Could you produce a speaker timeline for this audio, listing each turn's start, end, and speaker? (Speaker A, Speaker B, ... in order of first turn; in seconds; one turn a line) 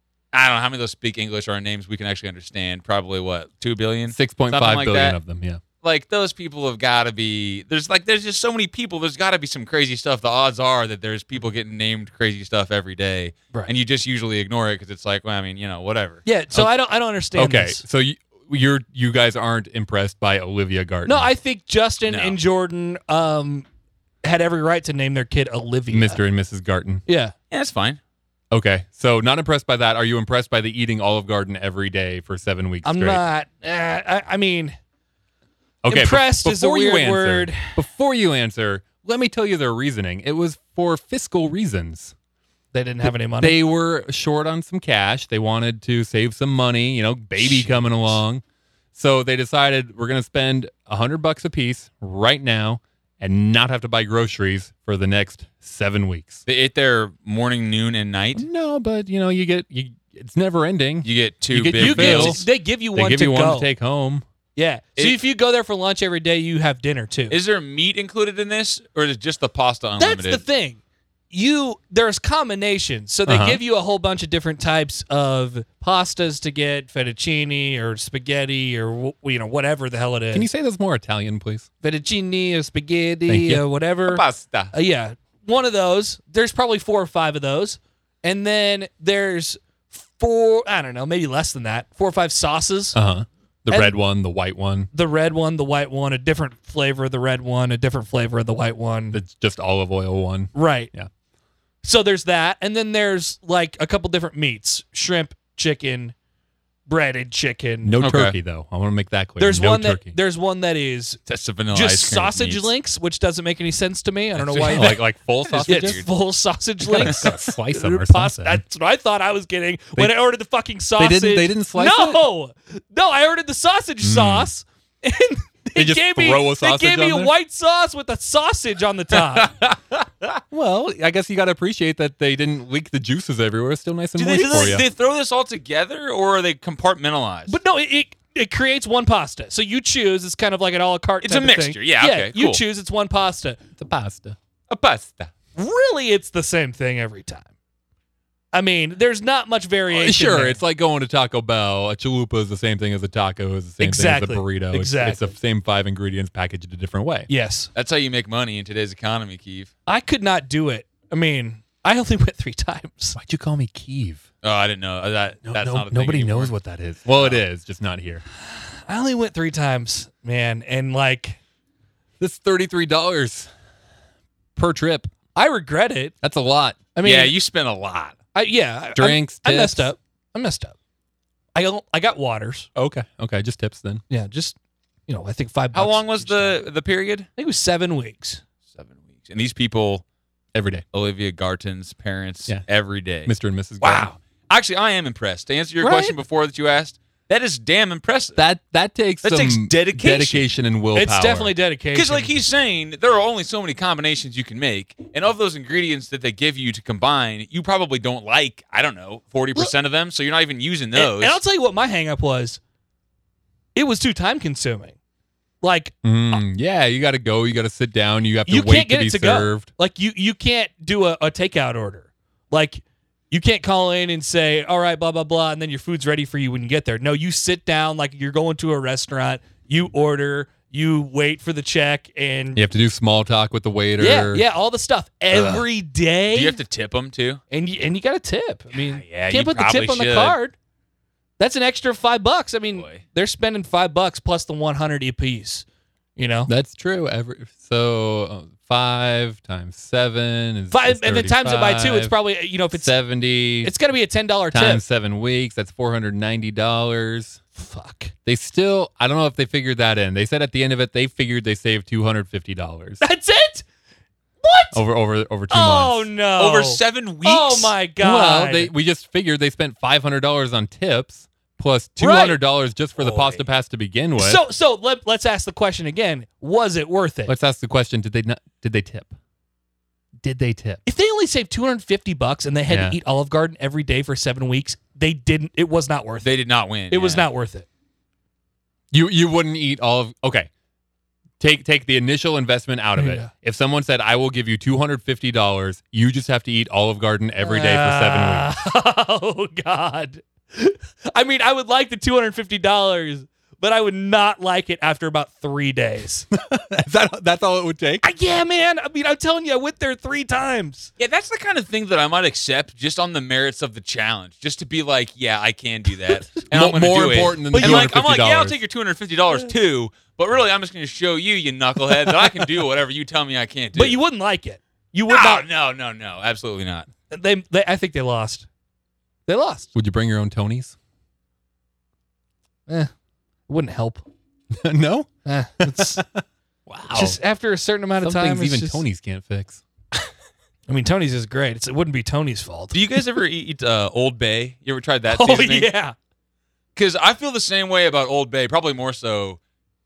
Speaker A: 0.3-5.2
Speaker B: 4.1-5.6
Speaker A: 5.8-16.2
Speaker C: 16.2-17.8
Speaker B: 17.3-21.3
Speaker C: 21.1-23.7
Speaker A: 22.1-22.4
Speaker C: 24.2-26.2
Speaker B: 25.9-27.0
Speaker C: 27.1-27.3
Speaker A: 27.5-28.0
Speaker B: 28.5-33.2
Speaker C: 32.8-34.8
Speaker B: 35.8-42.1
Speaker C: 35.9-37.8
Speaker C: 42.7-43.6
Speaker B: 43.0-48.4
Speaker C: 47.4-47.8
Speaker B: 48.9-56.5
Speaker A: 56.5-58.5
Speaker B: 58.4-64.2
Speaker A: 61.0-62.4
Speaker C: 61.8-63.7
Speaker C: 64.6-67.4
Speaker A: 67.3-70.4
Speaker C: 70.0-70.8
Speaker C: 71.3-80.5
Speaker B: 73.3-73.6
Speaker B: 80.3-81.7
Speaker C: 81.8-93.0
Speaker B: 83.3-83.6
Speaker A: 84.1-84.7
Speaker B: 92.9-94.9
Speaker C: 93.7-94.0
Speaker C: 94.9-99.2
Speaker B: 99.1-101.1
Speaker C: 100.5-100.9
Speaker C: 101.8-106.2
Speaker C: 106.9-108.0
Speaker B: 107.8-110.2
Speaker A: 108.0-108.4
Speaker C: 109.4-111.2
Speaker A: 111.3-112.7
Speaker C: 111.7-115.0
Speaker B: 114.5-116.0
Speaker A: 114.6-115.0
Speaker A: 115.5-116.1
Speaker C: 115.7-129.5
Speaker B: 116.9-118.6
Speaker B: 121.0-122.2
Speaker B: 124.0-124.5
Speaker B: 125.8-127.3
Speaker A: 129.3-130.4
Speaker B: 130.5-134.8
Speaker A: 134.2-137.6
Speaker C: 137.5-143.6
Speaker A: 141.2-142.6
Speaker B: 143.8-144.4
Speaker A: 144.7-145.3
Speaker C: 145.6-147.5
Speaker C: 148.5-150.6
Speaker B: 149.9-157.3
Speaker C: 153.8-155.3
Speaker C: 157.3-157.7
Speaker A: 157.8-159.7
Speaker C: 159.9-163.2
Speaker B: 163.2-164.2
Speaker A: 164.4-166.5
Speaker B: 165.5-168.2
Speaker A: 167.1-167.4
Speaker C: 168.6-171.4
Speaker B: 172.2-173.5
Speaker B: 174.6-175.1
Speaker C: 175.3-176.1
Speaker B: 176.2-176.8
Speaker C: 176.9-177.3
Speaker A: 177.0-178.2
Speaker C: 178.3-180.8
Speaker B: 179.0-179.9
Speaker C: 181.6-182.7
Speaker B: 182.8-184.0
Speaker C: 184.1-184.6
Speaker C: 185.1-186.6
Speaker A: 185.7-187.3
Speaker C: 187.4-188.4
Speaker A: 188.7-190.0
Speaker B: 190.5-190.8
Speaker A: 190.9-198.4
Speaker B: 193.2-194.1
Speaker B: 195.8-196.1
Speaker B: 198.4-201.5
Speaker A: 199.2-200.4
Speaker C: 200.9-202.3
Speaker A: 201.9-211.4
Speaker C: 210.9-212.6
Speaker C: 213.8-215.0
Speaker C: 215.6-215.9
Speaker B: 216.0-219.7
Speaker C: 218.5-232.6
Speaker B: 232.6-234.4
Speaker C: 234.0-236.6
Speaker A: 236.3-237.4
Speaker C: 237.5-240.5
Speaker A: 238.7-240.4
Speaker C: 241.4-245.7
Speaker A: 242.7-243.0
Speaker C: 246.2-246.5
Speaker B: 246.5-252.2
Speaker C: 250.7-252.9
Speaker B: 252.7-253.7
Speaker C: 253.6-254.8
Speaker B: 254.5-257.4
Speaker C: 257.6-258.1
Speaker B: 258.3-263.0
Speaker C: 263.0-263.7
Speaker C: 264.4-264.8
Speaker B: 264.7-266.1
Speaker C: 265.5-268.7
Speaker A: 266.4-267.8
Speaker B: 268.0-274.4
Speaker C: 272.0-272.4
Speaker C: 273.1-273.3
Speaker C: 274.2-277.3
Speaker B: 277.3-279.1
Speaker B: 280.2-280.8
Speaker C: 280.9-286.3
Speaker B: 282.7-283.0
Speaker A: 286.2-287.3
Speaker C: 286.9-287.7
Speaker B: 288.9-290.5
Speaker B: 291.4-298.5
Speaker C: 293.0-293.3
Speaker C: 297.4-306.3
Speaker B: 306.4-308.1
Speaker C: 308.0-310.9
Speaker A: 311.0-324.0
Speaker B: 316.5-318.6
Speaker C: 317.5-317.9
Speaker C: 323.8-325.5
Speaker A: 325.1-326.9
Speaker C: 327.1-328.5
Speaker C: 329.3-329.7
Speaker B: 329.8-330.8
Speaker C: 333.5-334.1
Speaker B: 334.5-337.2
Speaker C: 335.3-336.0
Speaker C: 336.9-338.8
Speaker B: 338.0-339.6
Speaker C: 340.7-343.0
Speaker A: 342.7-345.7
Speaker C: 345.1-345.9
Speaker A: 346.8-349.4